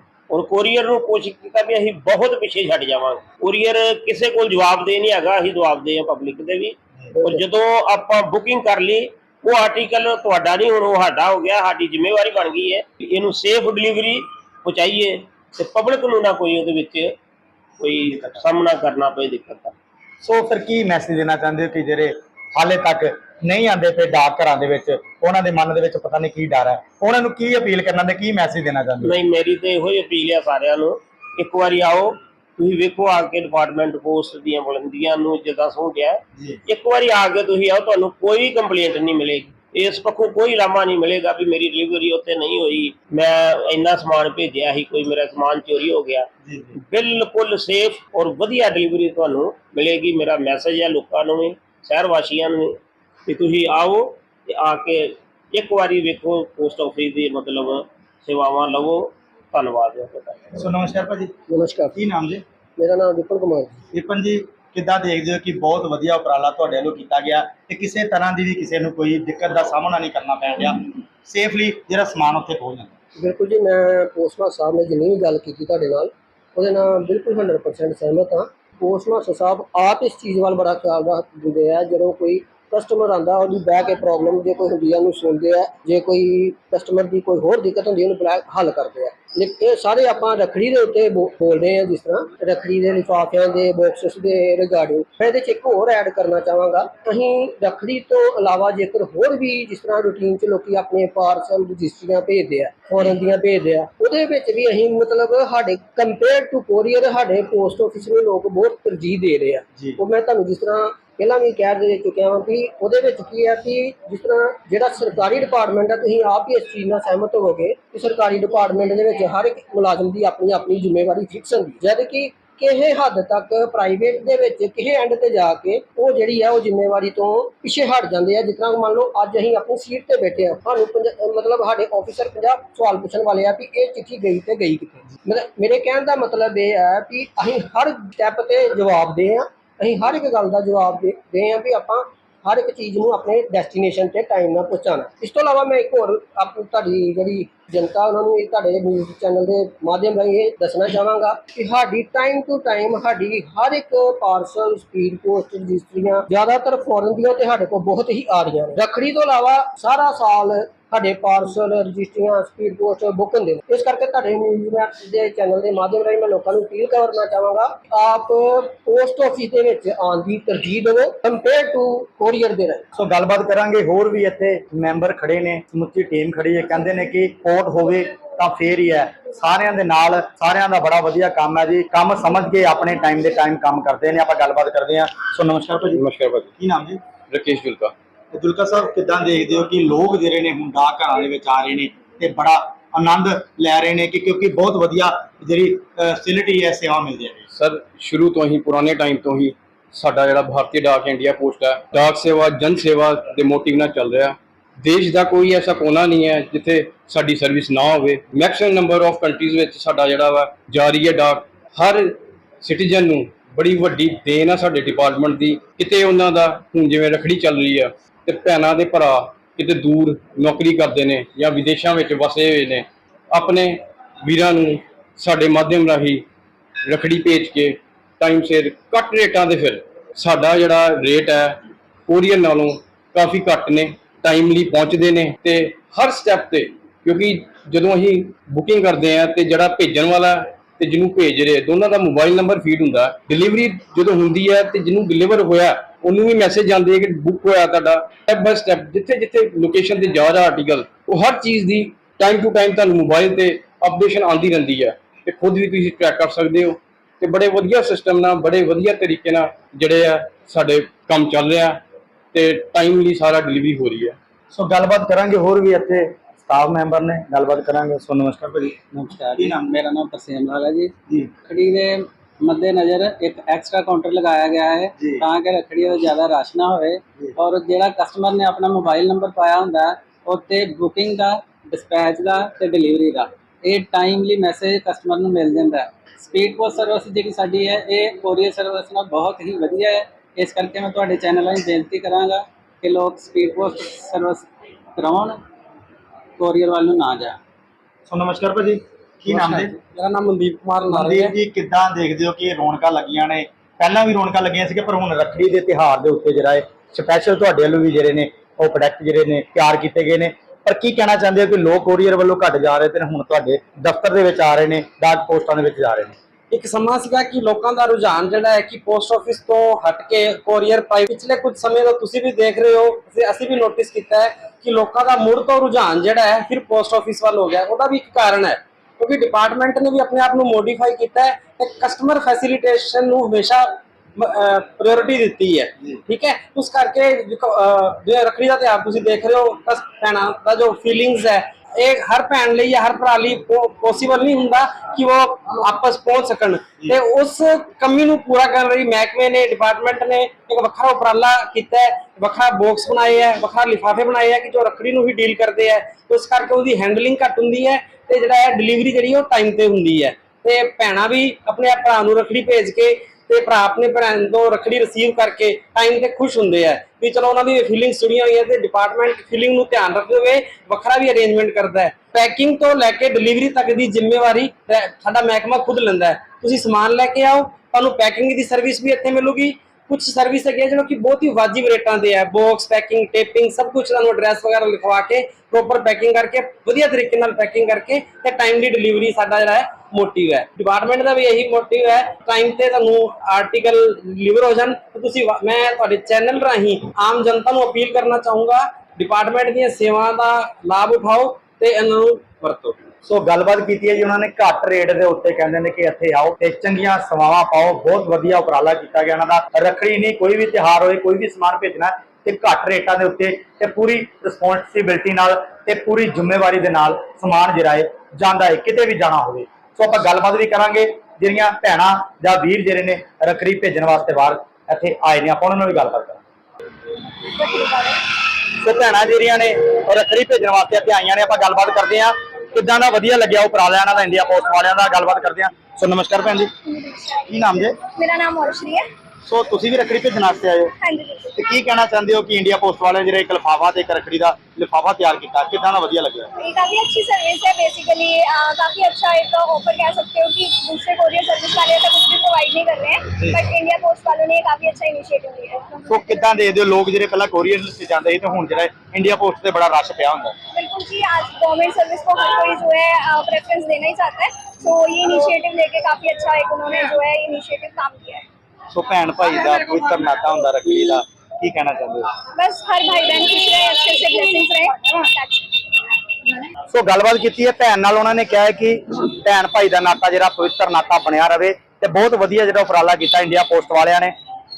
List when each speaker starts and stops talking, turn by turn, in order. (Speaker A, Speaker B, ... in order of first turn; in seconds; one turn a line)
Speaker A: 0.3-17.1
Speaker B: 7.1-7.4
Speaker A: 17.8-19.7
Speaker C: 20.2-29.2
Speaker A: 29.0-46.3
Speaker C: 46.4-46.7
Speaker A: 46.9-52.8
Speaker A: 53.3-60.5
Speaker C: 60.5-61.3
Speaker B: 61.5-61.9
Speaker C: 61.9-62.4
Speaker B: 62.8-63.8
Speaker C: 63.9-72.9
Speaker B: 73.2-172.8
Speaker C: 172.9-186.0
Speaker D: 185.9-186.5
Speaker C: 186.6-187.0
Speaker D: 187.3-187.9
Speaker C: 188.3-197.4
Speaker D: 197.5-226.2
Speaker D: 226.9-261.8
Speaker D: 262.3-264.1
Speaker C: 264.5-269.7
Speaker E: 268.9-270.9
Speaker E: 271.5-295.4
Speaker C: 275.0-275.2
Speaker E: 296.4-297.4
Speaker C: 298.1-299.8
Speaker F: 299.3-301.3
Speaker C: 300.9-316.2
Speaker F: 316.5-402.8
Speaker C: 403.0-426.2
Speaker G: 427.4-427.9
Speaker C: 428.6-436.5
Speaker G: 436.6-437.2
Speaker C: 437.3-437.8
Speaker G: 437.9-438.9
Speaker C: 439.2-440.7
Speaker G: 440.8-441.3
Speaker C: 441.4-446.3
Speaker G: 446.4-456.2
Speaker C: 455.9-460.3
Speaker G: 460.5-468.2
Speaker C: 468.7-472.1
Speaker G: 472.4-475.5
Speaker C: 476.7-484.1